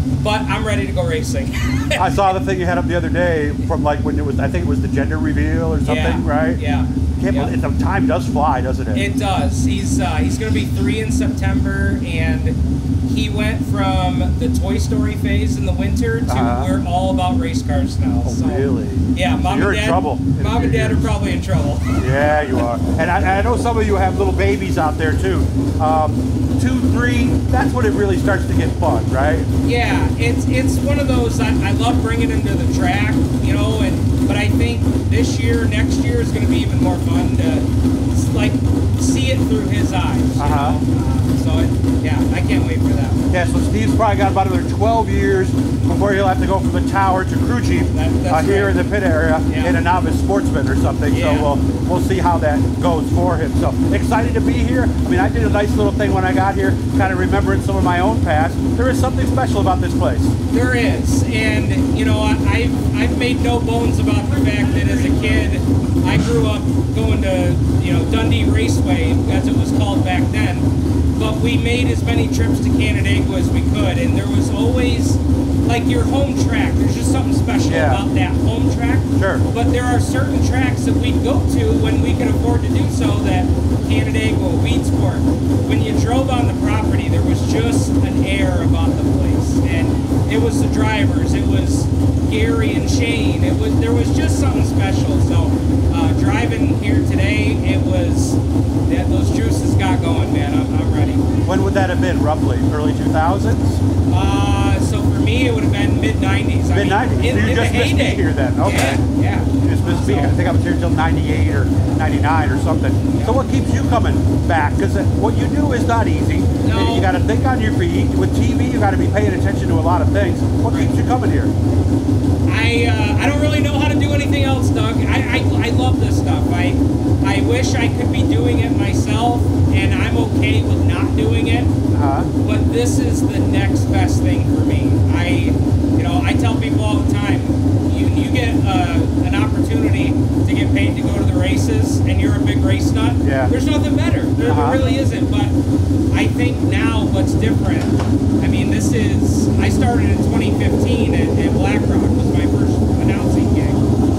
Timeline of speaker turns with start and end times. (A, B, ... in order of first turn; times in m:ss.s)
0:00.2-0:02.2 A
0:02.0-0:06.6 B
0:05.8-0:07.5 A
0:07.2-0:09.0 B
0:08.9-0:12.6 A
0:13.1-0:22.0 A
0:16.3-0:16.7 B
0:18.2-0:21.2 B
0:22.0-0:29.5 B
0:29.6-0:43.2 A
0:40.4-0:40.8 B
0:43.3-1:00.3 B
0:47.9-0:48.8 A
0:49.4-0:49.8 A
0:51.1-0:51.5 A
1:00.5-1:41.3 A
1:17.7-1:18.0 B
1:19.2-1:19.5 B
1:41.4-1:43.8 B
1:44.1-1:50.4 A
1:46.7-1:49.0 B
1:49.6-2:01.5 B
1:53.0-1:53.4 A
1:56.6-1:57.1 A
2:00.7-2:00.9 A
2:02.5-2:11.7 A
2:11.9-2:12.3 B
2:12.4-2:25.6 A
2:23.2-2:23.5 B
2:24.4-2:24.8 B
2:26.1-2:33.8 A